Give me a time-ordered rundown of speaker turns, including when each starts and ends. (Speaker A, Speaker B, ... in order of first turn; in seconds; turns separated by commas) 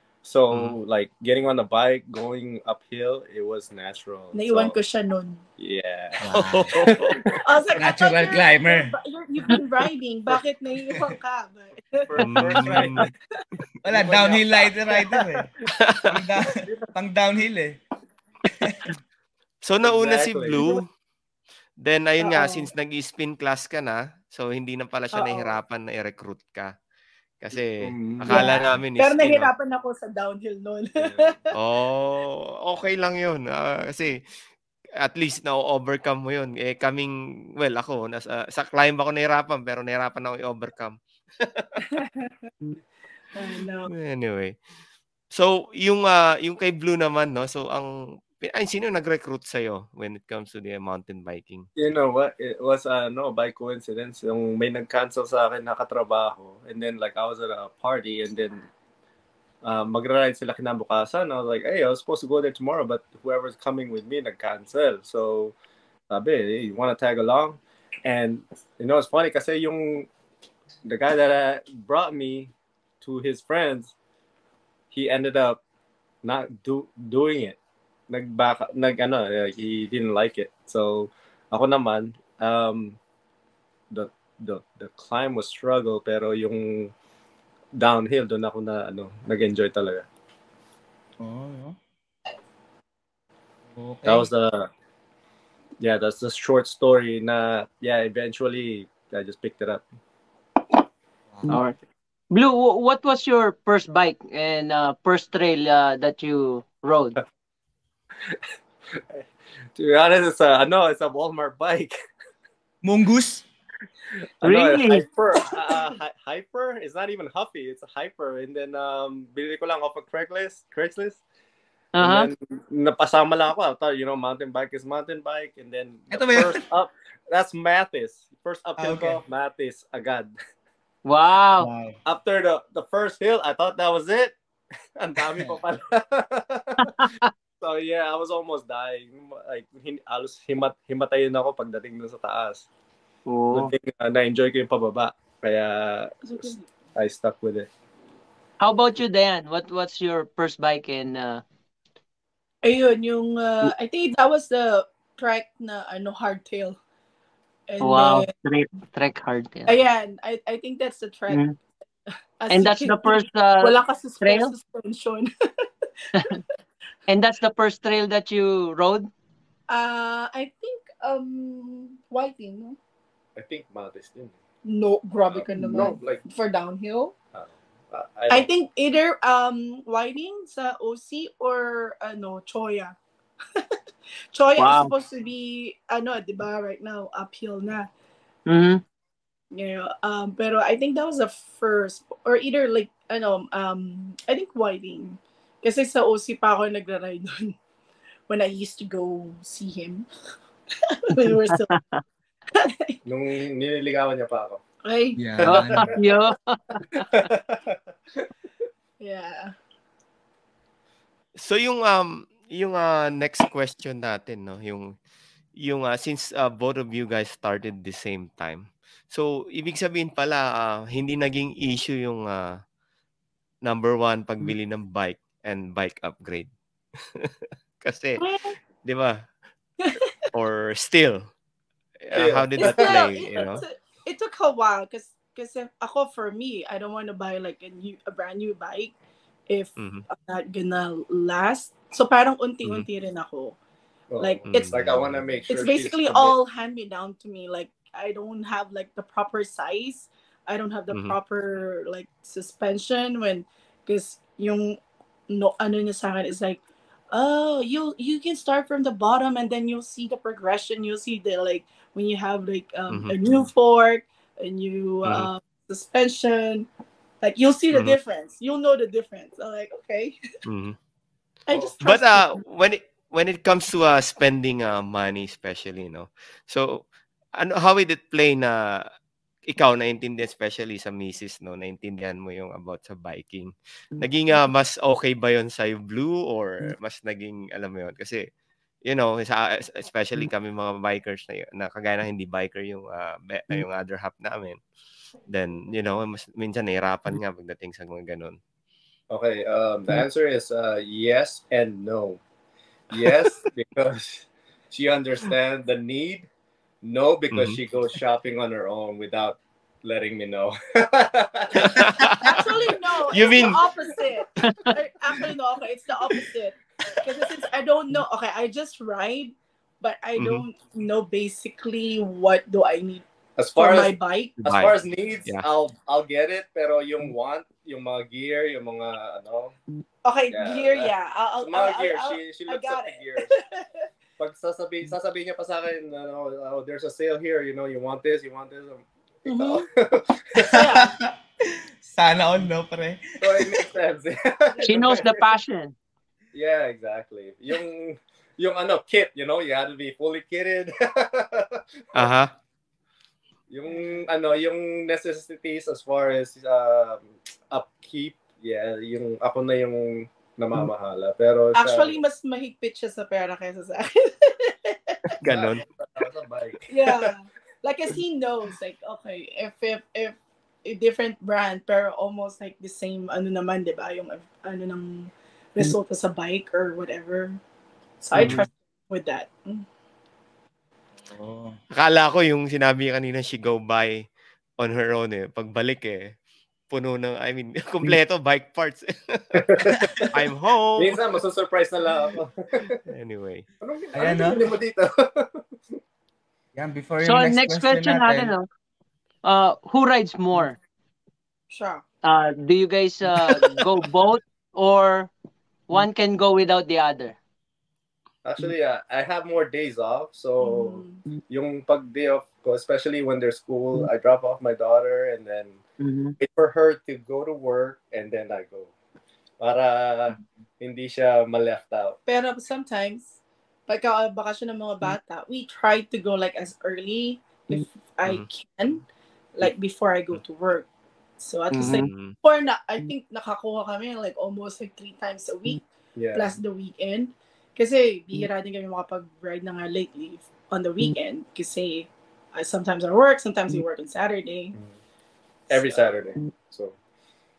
Speaker A: 0.2-4.8, Speaker B: 4.3-5.4, Speaker A: 5.6-6.2, Speaker C: 6.2-6.8, Speaker D: 6.3-7.3, Speaker A: 6.8-7.4, Speaker B: 7.4-13.0, Speaker C: 7.8-8.9, Speaker A: 12.1-13.1, Speaker D: 12.2-13.1, Speaker C: 13.8-15.5, Speaker A: 13.9-15.0, Speaker D: 15.7-16.2, Speaker C: 16.1-17.8, Speaker A: 16.5-16.9, Speaker D: 19.6-20.9, Speaker A: 19.8-20.6, Speaker D: 21.8-26.7, Speaker B: 22.2-22.7, Speaker B: 25.1-25.6, Speaker D: 27.4-29.5, Speaker A: 27.8-28.6, Speaker B: 28.3-31.5, Speaker A: 31.0-31.4, Speaker D: 31.5-34.2, Speaker D: 35.0-41.8, Speaker B: 41.9-42.5, Speaker B: 43.4-43.9, Speaker D: 43.9-44.6, Speaker D: 45.3-51.7, Speaker A: 51.8-58.7, Speaker A: 59.6-65.5, Speaker A: 66.1-70.1, Speaker A: 70.8-73.9, Speaker A: 74.9-75.6, Speaker A: 76.2-77.6, Speaker A: 78.1-83.0, Speaker A: 83.9-86.9, Speaker A: 87.8-90.1, Speaker C: 91.2-91.8, Speaker C: 93.7-94.3, Speaker A: 94.1-94.7, Speaker A: 95.8-99.8, Speaker C: 101.3-101.6, Speaker E: 101.5-101.8, Speaker E: 102.3-107.2, Speaker A: 108.9-109.2, Speaker A: 109.8-111.9, Speaker C: 112.8-113.5, Speaker A: 114.4-121.2, Speaker E: 114.4-115.0, Speaker E: 122.0-122.3, Speaker A: 122.0-130.3, Speaker C: 126.1-126.6, Speaker C: 128.8-129.2, Speaker E: 131.1-131.7, Speaker C: 131.6-131.9, Speaker A: 132.1-134.4, Speaker A: 135.0-136.9, Speaker E: 136.9-137.3, Speaker A: 137.6-142.7, Speaker E: 143.3-143.7, Speaker A: 143.5-147.7, Speaker B: 146.2-146.6, Speaker E: 148.6-151.4, Speaker B: 152.6-156.8, Speaker B: 157.7-158.3, Speaker E: 157.8-159.8, Speaker B: 159.7-161.5, Speaker B: 162.4-165.3, Speaker E: 162.5-164.5, Speaker E: 166.1-166.4, Speaker E: 167.1-169.1, Speaker B: 169.7-172.8, Speaker A: 173.4-174.4, Speaker B: 174.6-177.1, Speaker A: 175.3-176.2, Speaker A: 177.3-178.5, Speaker B: 178.3-183.0, Speaker B: 184.3-187.9, Speaker E: 184.6-184.9, Speaker E: 188.5-188.8, Speaker B: 189.5-197.6, Speaker B: 198.3-200.1, Speaker B: 200.8-201.7, Speaker E: 201.4-202.0, Speaker B: 202.6-203.0, Speaker A: 203.1-204.6, Speaker B: 204.8-205.2, Speaker C: 205.2-205.9, Speaker A: 205.4-206.0, Speaker E: 205.4-207.1, Speaker A: 207.1-208.3, Speaker B: 209.0-209.5, Speaker D: 211.4-214.9, Speaker D: 215.6-222.6, Speaker D: 223.7-228.2, Speaker B: 228.2-228.6, Speaker D: 228.8-229.3, Speaker B: 229.8-230.2, Speaker D: 230.3-231.3, Speaker D: 232.0-233.6, Speaker A: 232.1-233.0, Speaker B: 232.6-238.9, Speaker B: 239.5-243.6, Speaker D: 239.8-240.1, Speaker A: 244.1-246.3, Speaker B: 244.2-244.8, Speaker D: 244.5-245.1, Speaker B: 245.5-256.6, Speaker D: 250.9-251.2, Speaker B: 257.1-266.7, Speaker D: 262.9-263.2, Speaker D: 265.1-265.3, Speaker B: 267.2-270.2, Speaker D: 267.7-268.0, Speaker D: 270.5-270.8, Speaker B: 271.5-272.4, Speaker D: 271.8-276.9, Speaker D: 277.4-278.9, Speaker D: 279.5-288.3, Speaker D: 288.9-294.6, Speaker D: 295.3-298.4, Speaker A: 299.1-302.2, Speaker A: 302.9-306.3, Speaker A: 306.8-311.9, Speaker D: 307.3-307.6, Speaker D: 311.6-312.4, Speaker B: 312.3-324.4, Speaker D: 313.1-313.6, Speaker E: 314.4-314.7, Speaker D: 320.2-320.5, Speaker A: 323.4-329.6, Speaker D: 324.4-325.5, Speaker B: 330.1-333.9, Speaker A: 330.3-333.3, Speaker A: 334.2-340.6, Speaker B: 339.2-339.7, Speaker C: 340.5-341.1, Speaker B: 340.5-340.9, Speaker C: 341.8-343.6, Speaker A: 343.2-345.3, Speaker E: 344.6-345.7, Speaker A: 346.3-352.1, Speaker D: 351.9-352.3, Speaker A: 353.5-362.0, Speaker B: 361.6-365.2, Speaker D: 365.2-365.6, Speaker A: 365.2-366.7, Speaker B: 366.7-377.4, Speaker B: 378.0-379.7, Speaker C: 378.1-378.4, Speaker C: 381.0-381.6, Speaker D: 381.7-384.0, Speaker D: 384.6-386.1, Speaker D: 386.7-389.4, Speaker A: 389.4-390.1, Speaker C: 389.6-390.1, Speaker D: 390.1-391.0, Speaker A: 390.8-392.8, Speaker D: 392.9-393.5, Speaker A: 393.6-395.8, Speaker C: 393.9-394.4, Speaker C: 396.6-398.3, Speaker E: 397.0-398.5, Speaker E: 399.2-400.6, Speaker B: 401.5-401.8, Speaker E: 402.0-405.1, Speaker E: 405.7-407.2, Speaker A: 408.2-415.6, Speaker B: 410.4-411.0, Speaker E: 415.8-416.2, Speaker A: 416.2-418.7, Speaker A: 419.4-422.0, Speaker B: 422.1-423.1, Speaker B: 423.7-428.8, Speaker B: 429.4-430.7, Speaker B: 431.2-444.6, Speaker E: 431.5-431.9, Speaker D: 431.7-432.2, Speaker A: 436.0-436.4, Speaker A: 445.5-446.8